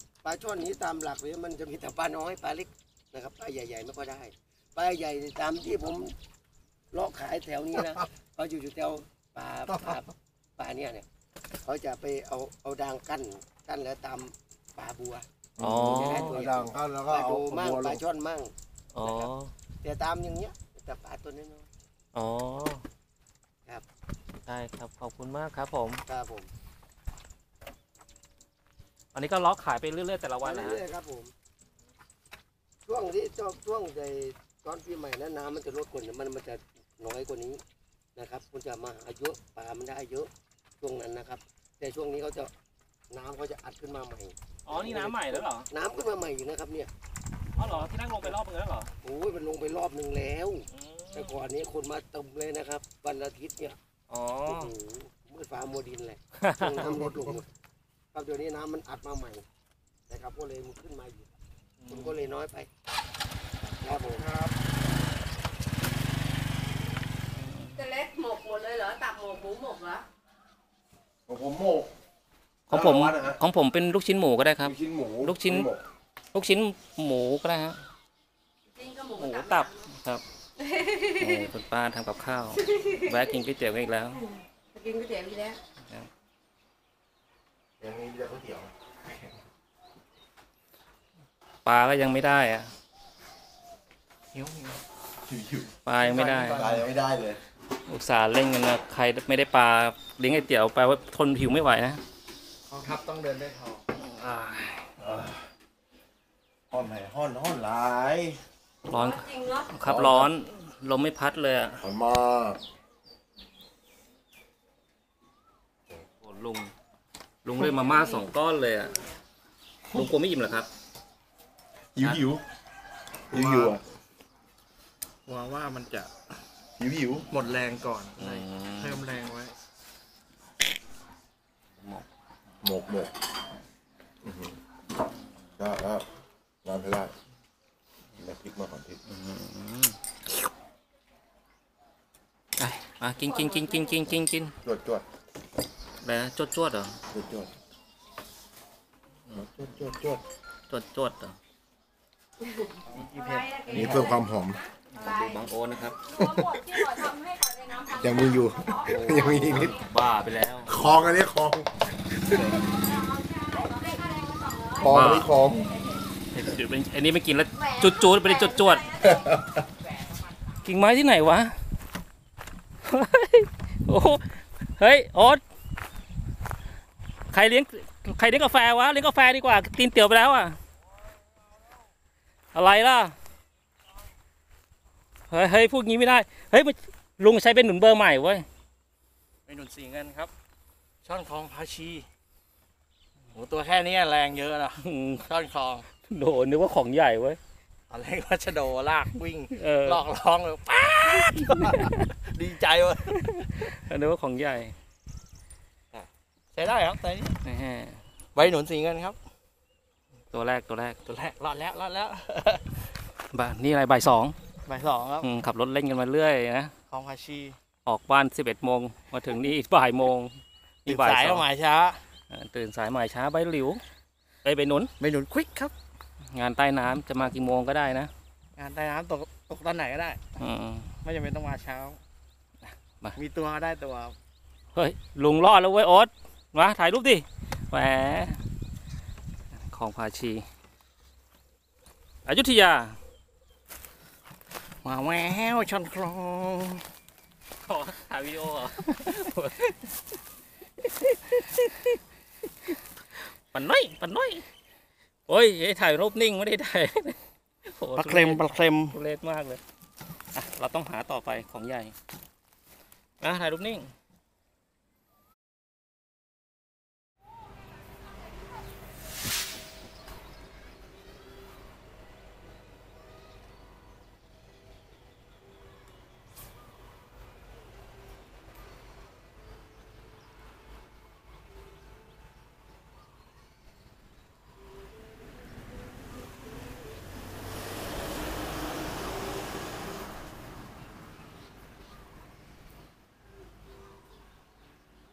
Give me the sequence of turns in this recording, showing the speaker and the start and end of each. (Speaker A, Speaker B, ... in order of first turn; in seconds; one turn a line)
Speaker A: 0.2-6.1
Speaker A: 6.9-11.1
Speaker B: 9.7-10.0
Speaker A: 11.6-15.3
Speaker B: 15.6-18.0
Speaker C: 15.6-16.4
Speaker A: 15.9-19.3
Speaker C: 18.9-19.5
Speaker A: 19.8-21.7
Speaker C: 22.1-22.8
Speaker C: 24.5-26.0
Speaker A: 26.1-26.5
Speaker C: 29.1-30.8
Speaker A: 30.4-31.3
Speaker A: 32.9-37.6
Speaker A: 38.2-40.3
Speaker A: 40.8-42.5
Speaker A: 43.1-46.9
Speaker C: 44.7-45.7
Speaker C: 47.6-48.9
Speaker A: 47.6-48.3
Speaker A: 49.0-53.8
Speaker C: 50.7-51.3
Speaker C: 54.1-54.7
Speaker A: 54.5-57.5
Speaker C: 56.4-56.8
Speaker B: 56.8-57.4
Speaker A: 58.1-59.5
Speaker A: 60.1-61.4
Speaker A: 61.9-62.7
Speaker A: 63.8-64.3
Speaker B: 64.1-64.5
Speaker C: 67.4-67.8
Speaker D: 67.8-70.0
Speaker B: 71.3-71.9
Speaker C: 72.7-75.7
Speaker B: 72.7-73.4
Speaker B: 74.6-75.8
Speaker C: 76.3-77.8
Speaker D: 78.7-79.9
Speaker C: 79.2-80.2
Speaker D: 80.6-81.5
Speaker C: 81.2-84.2
Speaker D: 82.6-83.4
Speaker D: 84.2-85.6
Speaker B: 87.8-88.7
Speaker C: 91.7-92.7
Speaker E: 94.3-94.8
Speaker B: 95.2-97.4
Speaker C: 95.8-96.6
Speaker E: 96.0-96.9
Speaker C: 97.9-102.0
Speaker E: 102.7-104.4
Speaker B: 105.0-105.5
Speaker B: 106.7-108.4
Speaker C: 108.9-111.8
Speaker D: 108.9-109.7
Speaker B: 109.8-110.3
Speaker B: 111.8-112.6
Speaker C: 116.2-116.7
Speaker C: 117.4-119.0
Speaker D: 117.7-118.3
Speaker C: 119.9-120.7
Speaker B: 122.0-122.4
Speaker E: 123.3-123.8
Speaker B: 123.3-123.8
Speaker E: 125.3-126.1
Speaker B: 126.8-127.3
Speaker E: 127.3-129.5
Speaker C: 128.2-129.0
Speaker B: 132.6-133.1
Speaker B: 134.2-134.6
Speaker B: 135.6-136.1
Speaker B: 136.6-137.1
Speaker B: 138.2-139.0
Speaker C: 139.1-140.0
Speaker C: 142.6-144.5
Speaker D: 143.2-144.0
Speaker B: 144.6-145.1
Speaker C: 146.0-147.0
Speaker B: 147.1-147.5
Speaker B: 149.3-150.2
Speaker C: 150.7-151.4
Speaker D: 152.6-155.5
Speaker E: 152.9-154.1
Speaker B: 153.7-154.6
Speaker C: 154.9-156.0
Speaker D: 156.0-159.8
Speaker B: 156.1-157.0
Speaker B: 157.9-159.8
Speaker C: 158.9-160.8
Speaker B: 160.7-162.6
Speaker D: 162.5-165.1
Speaker B: 164.8-165.7
Speaker C: 164.9-165.3
Speaker D: 165.6-166.0
Speaker C: 166.3-169.0
Speaker D: 167.5-169.4
Speaker C: 170.6-171.6
Speaker C: 172.9-175.4
Speaker C: 177.3-180.6
Speaker C: 182.5-183.2
Speaker C: 185.3-188.5
Speaker E: 189.5-190.3
Speaker E: 191.0-192.1
Speaker E: 193.3-195.9
Speaker C: 194.8-195.2
Speaker C: 196.1-197.4
Speaker E: 197.9-203.7
Speaker C: 199.6-200.0
Speaker C: 203.7-204.8
Speaker E: 205.9-207.4
Speaker C: 207.4-208.0
Speaker E: 208.3-209.2
Speaker C: 210.3-211.0
Speaker E: 211.1-212.8
Speaker C: 213.3-214.4
Speaker E: 214.7-215.3
Speaker C: 215.2-216.7
Speaker E: 216.9-217.6
Speaker C: 217.9-221.5
Speaker E: 220.9-222.0
Speaker C: 222.3-223.8
Speaker C: 224.4-224.9
Speaker E: 225.0-225.7
Speaker C: 226.3-228.1
Speaker E: 228.6-230.2
Speaker C: 230.4-230.9
Speaker E: 231.0-232.0
Speaker E: 233.2-234.2
Speaker C: 234.8-238.4
Speaker C: 239.7-240.4
Speaker C: 242.3-243.0
Speaker E: 244.8-246.8
Speaker C: 247.7-249.7
Speaker C: 251.1-252.0
Speaker C: 253.5-254.4
Speaker C: 255.3-259.6
Speaker E: 258.0-259.0
Speaker C: 260.4-261.9
Speaker C: 263.2-263.9